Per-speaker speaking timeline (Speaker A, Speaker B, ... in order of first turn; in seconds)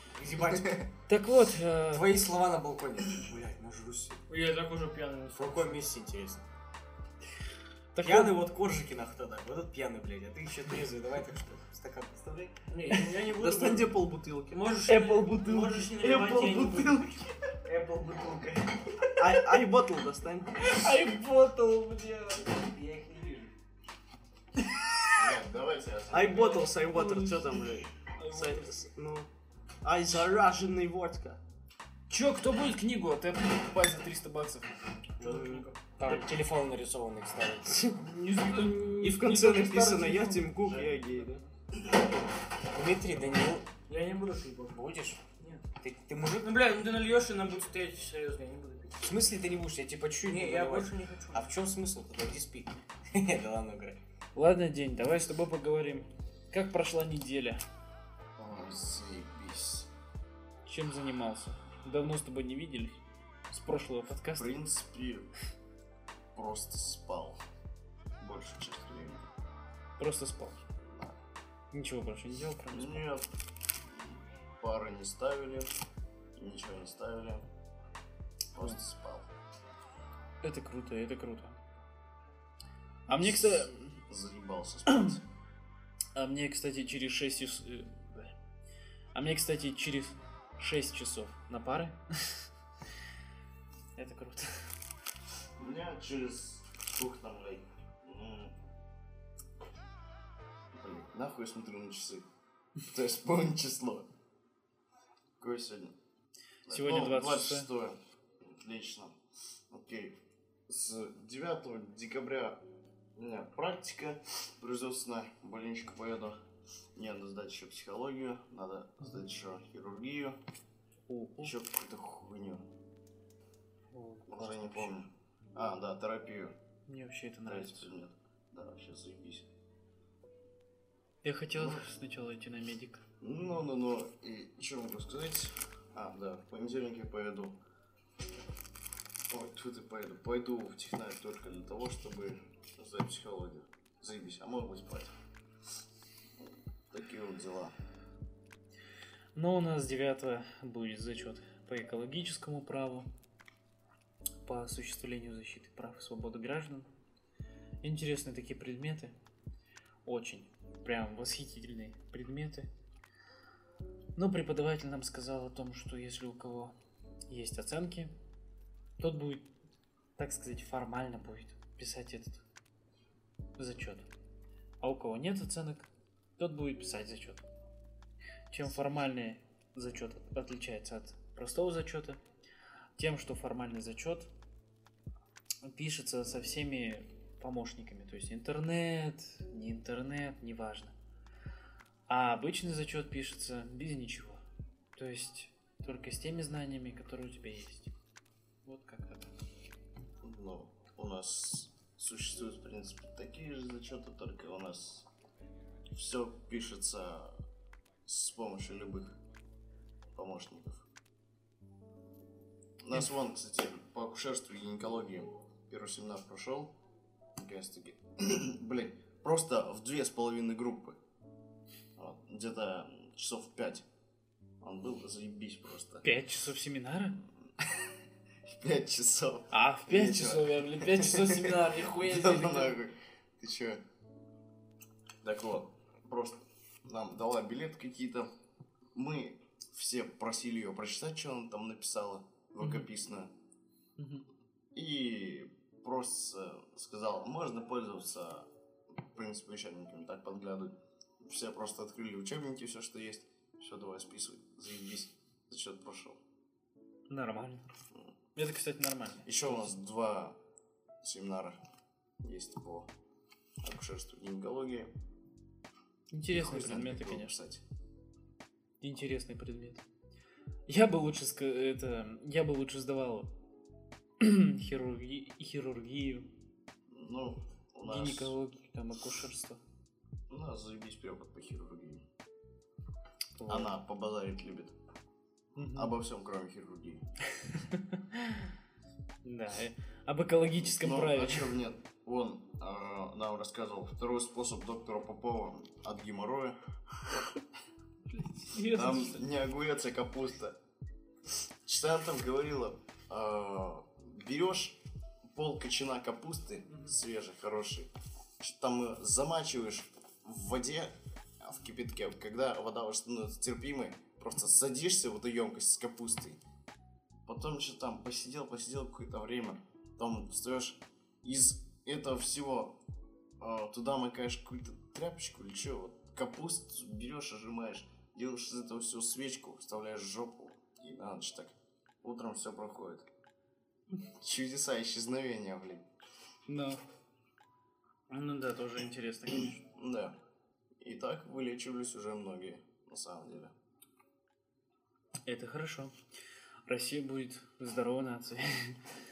Speaker A: 0.1-0.9, 1.9-4.2, 5.3-6.4, 8.0-12.6, 16.0-16.4, 17.7-18.6, 22.8-23.5, 29.0-29.3, 36.0-38.0, 42.7-43.6, 44.7-45.2, 45.8-46.7, 49.0-54.0
Speaker B: 1.1-2.2, 7.9-8.4, 20.6-22.5, 26.4-27.6, 28.2-28.7, 32.1-34.8, 38.4-39.5, 54.3-57.6, 60.6-63.0, 63.5-64.5, 70.0-70.6, 71.7-73.1, 80.4-81.5, 83.1-83.7, 86.1-88.3, 89.1-92.4, 94.0-94.5, 106.7-107.7, 121.1-121.5, 123.9-125.0, 126.9-127.9, 131.2-133.0, 149.3-153.1, 154.4-156.9, 157.8-159.1, 160.1-162.7, 164.2-166.7, 167.3-168.1, 169.0-169.4, 170.2-172.4, 173.6-174.1, 174.8-177.4, 178.5-182.2, 183.0-184.3, 185.6-190.9, 192.1-194.4, 194.9-197.9, 198.6-199.3, 226.0-227.2, 229.5-232.8, 242.6-242.9, 244.0-244.2, 257.1-257.6, 258.4-259.6, 266.1-267.3, 268.8-269.8, 270.7-273.3, 274.2-276.3, 277.8-279.6, 283.4-283.7, 285.6-285.9, 288.0-288.4, 289.2-291.6, 298.1-299.2, 336.5-336.8, 338.1-339.6, 345.2-345.9, 346.6-348.8
Speaker C: 4.3-5.9, 12.7-16.9, 35.2-35.8, 38.0-41.4, 43.9-44.9, 45.4-45.6, 46.3-49.0, 50.2-51.5
Speaker D: 12.9-17.3, 19.1-20.9, 26.1-28.9, 29.8-31.4, 35.2-35.6, 39.0-41.4
Speaker E: 25.1-26.5, 58.4-59.9, 64.3-65.3, 66.3-67.4, 68.2-69.3, 70.8-71.2, 72.7-75.7, 76.4-77.5, 78.5-79.3, 83.1-85.2, 95.6-98.5, 100.7-102.2, 102.8-104.1, 105.4-105.9, 106.7-109.1, 109.7-110.2, 110.7-112.6, 113.2-116.4, 117.0-120.4, 121.4-122.6, 124.3-126.5, 127.4-129.5, 131.5-131.8, 133.2-137.6, 139.3-145.1, 146.9-147.7, 200.2-205.1, 205.9-207.4, 208.1-209.1, 210.1-210.8, 212.8-216.7, 217.4-221.0, 222.0-223.8, 224.6-226.1, 228.4-233.8, 235.2-238.3, 238.9-243.3, 244.7-248.5, 249.1-256.2, 259.2-260.4, 261.0-261.6, 262.2-262.9, 263.6-264.9, 266.3-267.6, 276.9-278.3, 280.3-282.0, 283.4-284.7, 285.6-287.0, 290.6-296.6, 298.6-300.6, 301.6-304.8, 305.3-316.4, 317.2-322.8, 323.4-333.1, 334.2-335.8, 339.3-340.1, 340.8-343.5